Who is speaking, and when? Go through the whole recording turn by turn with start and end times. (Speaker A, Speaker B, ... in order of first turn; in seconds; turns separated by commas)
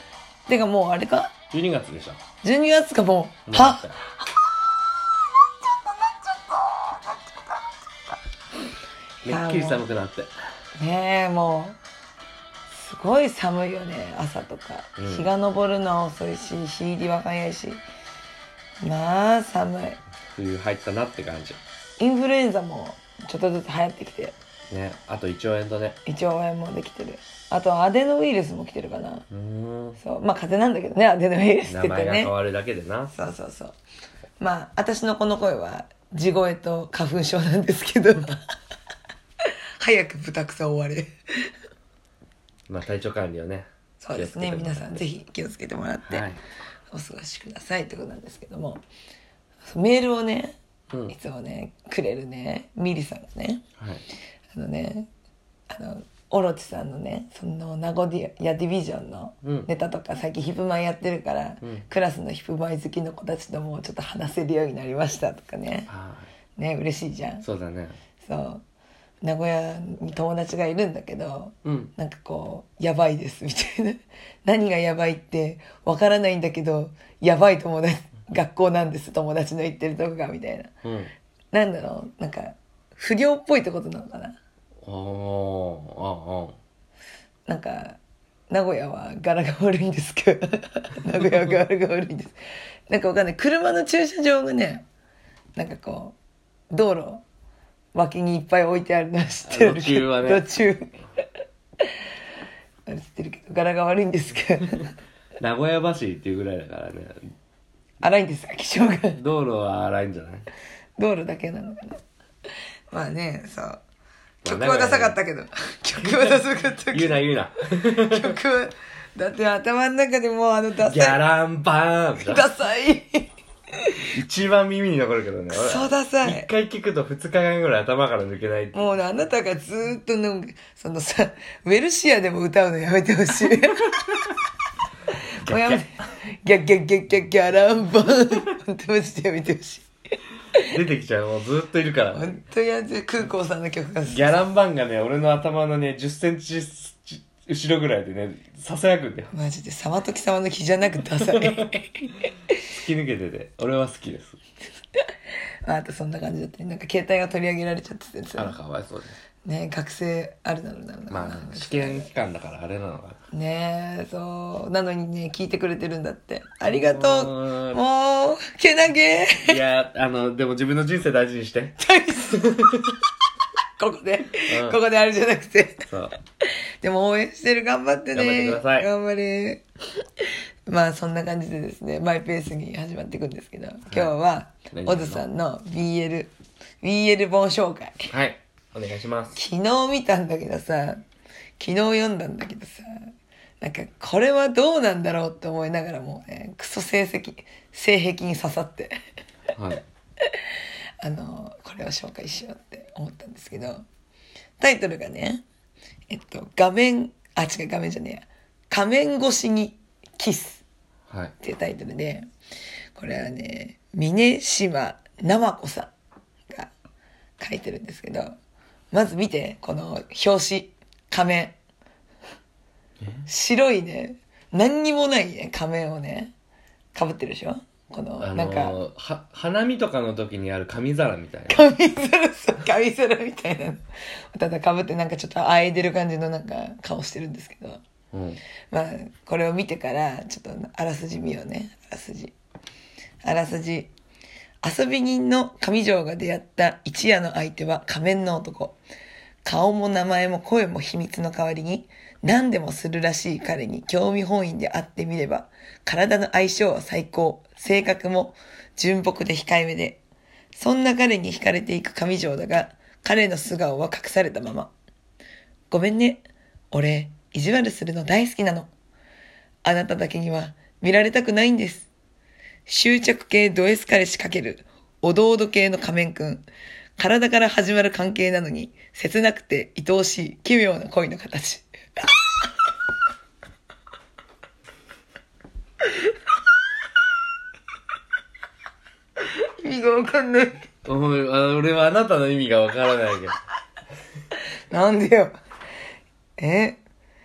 Speaker A: 0.5-1.3, Speaker B: 1.5-2.2, Speaker A: 2.4-4.6, Speaker B: 3.5-4.0, Speaker A: 5.7-7.5, Speaker A: 9.2-9.8, Speaker B: 9.2-10.3, Speaker A: 10.8-11.8, Speaker A: 12.7-17.8, Speaker B: 15.0-15.3, Speaker A: 18.8-20.0, Speaker B: 20.3-21.6, Speaker A: 22.0-24.4, Speaker B: 24.7-26.0, Speaker A: 26.1-29.2, Speaker B: 29.3-30.0, Speaker A: 30.0-32.3, Speaker B: 31.6-33.1, Speaker A: 33.1-33.8, Speaker A: 34.4-38.4, Speaker A: 39.8-41.5, Speaker B: 42.7-45.0, Speaker A: 44.0-46.3, Speaker B: 46.0-46.4, Speaker A: 46.9-48.8, Speaker A: 49.6-50.6, Speaker A: 51.1-53.6, Speaker B: 53.8-54.0, Speaker A: 54.5-55.1, Speaker A: 55.7-65.9, Speaker B: 59.4-59.7, Speaker B: 65.9-66.3, Speaker A: 66.5-67.4, Speaker B: 67.4-68.0, Speaker A: 68.2-68.6, Speaker A: 69.2-80.7, Speaker B: 71.6-71.9, Speaker B: 80.8-81.1, Speaker A: 81.5-84.4, Speaker B: 84.8-86.5, Speaker A: 87.5-88.0, Speaker A: 88.5-92.4, Speaker A: 92.9-94.8, Speaker A: 95.5-96.2, Speaker A: 96.7-97.2, Speaker A: 97.9-101.0, Speaker B: 99.5-100.4, Speaker A: 102.8-104.9, Speaker B: 105.4-107.3, Speaker A: 108.0-109.2, Speaker B: 109.2-110.5, Speaker A: 111.0-112.0, Speaker A: 112.9-113.8, Speaker B: 114.4-115.2, Speaker A: 114.4-117.2, Speaker B: 116.0-118.3, Speaker A: 117.8-121.2, Speaker B: 120.8-122.5, Speaker A: 122.2-123.3, Speaker B: 124.1-128.9, Speaker A: 125.5-126.5, Speaker A: 128.7-134.3, Speaker B: 135.4-135.8, Speaker A: 135.4-139.8, Speaker B: 140.7-142.3, Speaker A: 142.1-144.3, Speaker B: 144.1-149.3, Speaker A: 149.3-152.5, Speaker B: 151.2-151.7, Speaker B: 152.7-154.4, Speaker A: 155.6-158.6, Speaker B: 158.3-159.2, Speaker A: 159.4-162.1, Speaker B: 161.1-163.2, Speaker A: 163.3-169.6, Speaker B: 166.6-167.8, Speaker B: 169.4-171.8, Speaker A: 171.8-172.7, Speaker B: 172.4-173.0, Speaker A: 173.8-175.8, Speaker B: 174.5-174.8, Speaker B: 175.9-176.2, Speaker A: 176.8-179.6, Speaker B: 178.1-178.9, Speaker A: 180.7-188.1, Speaker B: 183.9-184.1, Speaker B: 184.7-185.2, Speaker B: 188.1-189.4, Speaker A: 189.3-191.0, Speaker A: 191.6-198.9, Speaker B: 199.5-199.8, Speaker A: 201.0-203.8, Speaker A: 204.6-205.4, Speaker A: 206.1-210.6, Speaker B: 211.1-211.3, Speaker A: 211.4-212.2, Speaker A: 212.9-215.9, Speaker A: 217.4-218.3, Speaker A: 218.9-221.6, Speaker B: 223.0-223.3, Speaker A: 223.3-226.3, Speaker A: 226.9-228.8, Speaker B: 228.2-231.7, Speaker A: 231.5-237.8, Speaker B: 238.1-238.4, Speaker A: 238.7-242.3, Speaker A: 243.2-243.9, Speaker A: 244.6-248.8, Speaker A: 249.4-260.0, Speaker A: 260.6-264.7, Speaker A: 265.7-268.7, Speaker A: 269.6-271.9, Speaker A: 272.7-276.4, Speaker A: 277.0-282.4, Speaker A: 289.6-290.7, Speaker B: 290.8-293.4, Speaker A: 294.7-295.3, Speaker A: 296.4-296.8